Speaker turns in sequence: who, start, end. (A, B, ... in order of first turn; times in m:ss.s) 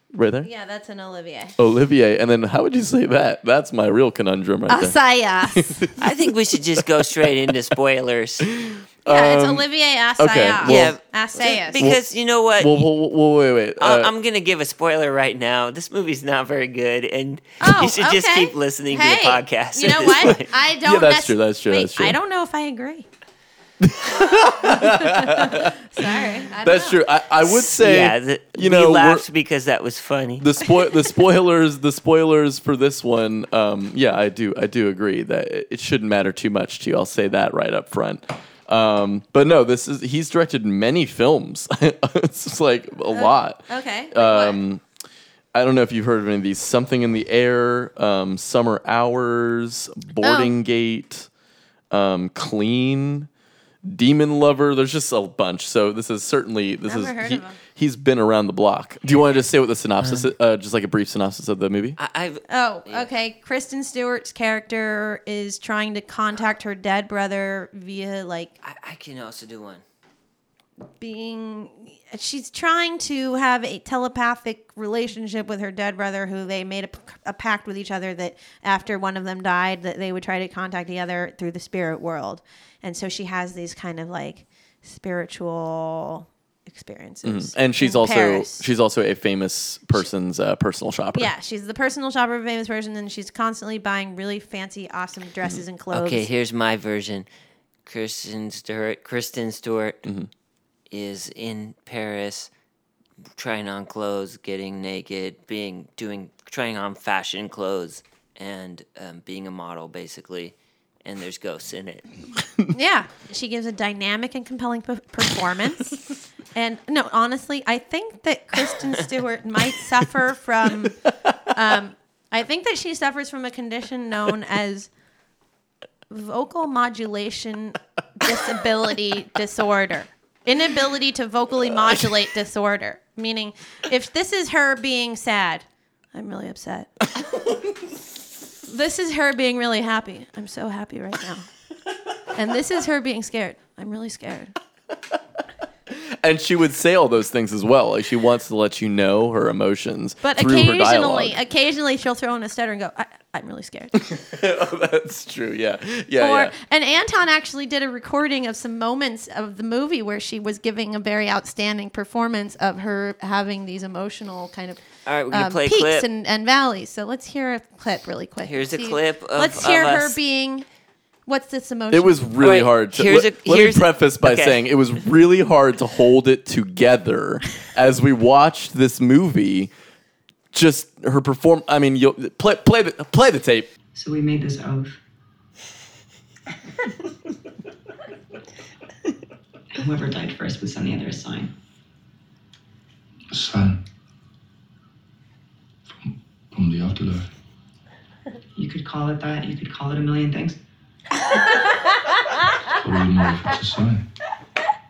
0:00.1-0:00.5 A
0:00.4-0:01.6 B
0:01.6-0:07.5 A
0:04.7-0:05.9 B
0:06.0-0:08.5 C
0:08.4-0:09.7 A
0:09.1-0:11.9 B
0:10.2-0:11.0 A
0:10.6-0:12.8 C
0:11.8-0:14.1 A
0:13.8-0:20.5 C
0:17.6-0:23.1 B
0:20.0-0:22.2 A
0:23.8-0:29.2 A
0:24.3-0:27.0 B
0:27.5-0:30.5 C
0:30.4-0:44.8 A
0:43.1-0:44.6 B
0:45.5-0:51.3 A
0:50.2-0:50.6 B
0:51.9-0:53.3 A
0:53.8-1:02.0 A
0:56.9-0:57.6 B
1:02.0-1:03.1 C
1:02.5-1:08.5 B
1:08.6-1:09.8 C
1:11.0-1:28.7 B
1:27.2-1:31.3 A
1:31.1-1:36.3 B
1:35.9-1:37.3 C
1:37.9-1:40.0 C
1:40.9-1:42.5 C
1:43.4-1:52.1 C
1:52.7-1:56.0 B
1:56.6-2:04.9 B
2:06.1-2:16.9 B
2:17.3-2:17.6 A
2:18.7-2:21.5 B
2:22.3-2:24.5 B
2:25.9-2:31.4 A
2:30.2-2:34.0 B
2:34.0-2:36.5 A
2:36.2-2:50.7 B
2:45.1-2:46.1 C
2:48.4-2:50.2 C
2:51.3-2:52.3 B
2:51.9-2:59.7 A
2:52.4-2:54.6 C
3:00.5-3:03.7 A
3:03.9-3:05.0 D
3:09.7-3:11.5 D
3:13.3-3:13.8 E
3:16.0-3:17.3 E
3:18.6-3:20.6 D
3:22.7-3:24.1 E